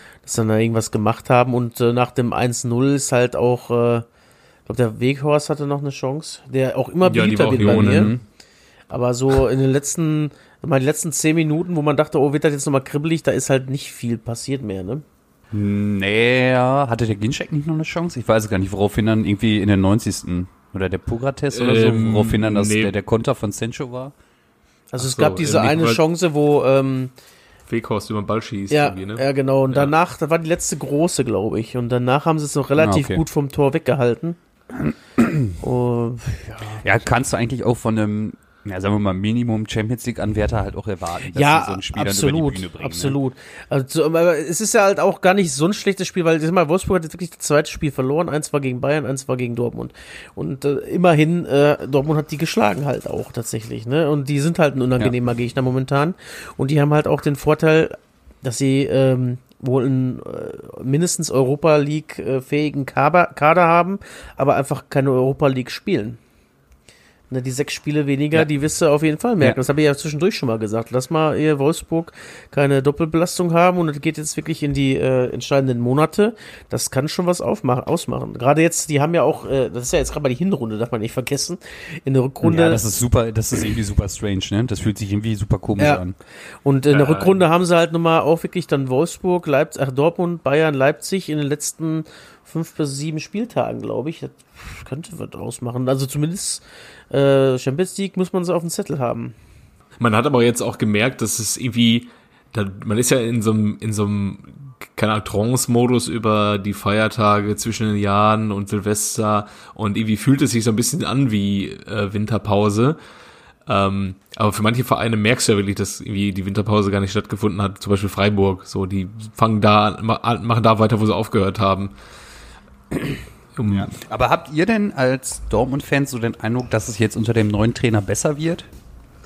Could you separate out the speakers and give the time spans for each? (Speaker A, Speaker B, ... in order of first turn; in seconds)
Speaker A: 0.2-4.1, 4.7-8.1, 8.9-15.0, 24.9-27.1, 28.7-34.4, 35.6-36.9, 41.3-66.2, 67.3-82.8, 85.8-86.0, 86.6-99.3
Speaker B: 7.0-8.1, 21.5-22.9, 25.0-26.0, 27.7-29.9, 86.9-87.4, 100.0-113.0, 113.7-121.9, 123.6-123.9
Speaker C: 7.6-8.2, 15.5-24.1, 32.8-33.2, 34.8-35.5, 36.8-43.2, 82.4-86.2, 123.7-128.7